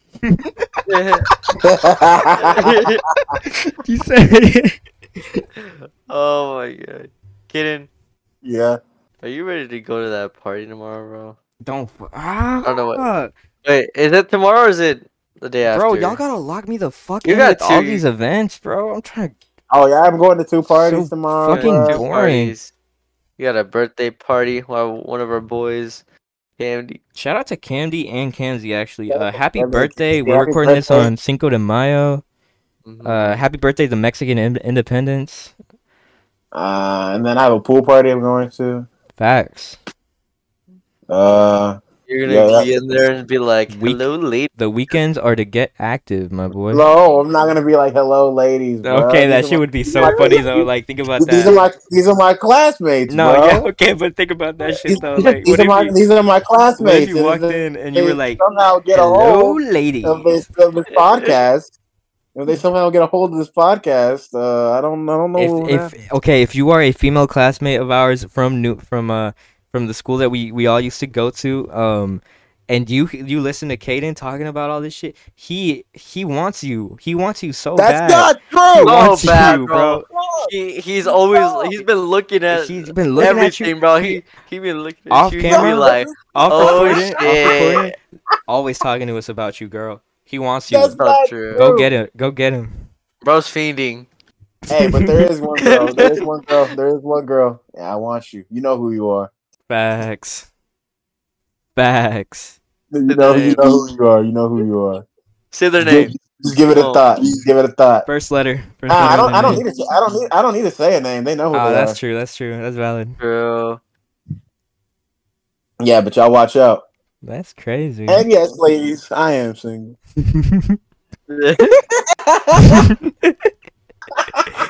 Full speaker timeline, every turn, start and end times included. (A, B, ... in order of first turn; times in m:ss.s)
0:00.2-0:00.5 A
0:00.9-0:01.3 B
0:01.5-0:02.8 C
0:02.4-0:03.0 B
0:03.4-0:04.8 A
0:05.7-0:07.9 B
0:08.4-0:08.8 C
0:09.2-0:11.4 B
0:11.6-0:13.3 A
0:12.6-0:13.1 B
0:13.6-0:16.2 B
0:15.7-0:19.4 A
0:17.2-0:18.0 B
0:19.7-0:22.0 C
0:20.7-0:22.6 A
0:21.5-0:22.7 B
0:23.4-0:26.0 B
0:26.6-0:27.0 B
0:27.2-0:32.2 A
0:29.1-0:31.1 C
0:32.9-0:33.4 B
0:33.0-0:35.5 A
0:36.5-0:38.9 C
0:39.2-0:39.8 A
0:41.1-0:42.7 C
0:42.1-0:44.5 B
0:43.7-0:46.8 A
0:46.7-0:53.7 C
0:48.8-0:51.6 A
0:53.1-0:56.0 A
0:54.7-1:01.7 C
0:56.8-0:58.4 A
0:58.9-1:00.4 A
1:01.0-1:01.4 B
1:02.4-1:05.9 C
1:05.4-1:20.0 A
1:17.8-1:19.6 C
1:18.8-1:27.9 B
1:20.1-1:20.5 C
1:21.0-1:21.7 C
1:22.5-1:24.2 A
1:25.1-1:27.9 A
1:25.5-1:27.9 C
1:28.5-1:31.0 A
1:30.7-1:31.9 C
1:31.0-1:31.7 B
1:31.5-1:32.8 A
1:33.2-1:34.1 B
1:34.7-1:39.3 C
1:34.8-1:35.2 A
1:35.6-1:36.2 B
1:39.7-1:40.5 A
1:41.8-1:42.6 A
1:42.9-1:45.0 C
1:43.1-1:43.7 B
1:45.5-1:46.1 B
1:45.8-1:48.1 C
1:46.7-1:47.0 B
1:48.1-1:49.6 A
1:48.9-1:52.0 C
1:51.5-1:53.2 A
1:53.2-1:53.8 B
1:55.8-1:56.8 C
1:57.2-1:58.3 A
1:58.1-2:00.0 C
2:00.2-2:00.8 A
2:01.3-2:01.8 B
2:02.1-2:02.8 C
2:02.6-2:03.5 A
2:04.2-2:04.5 C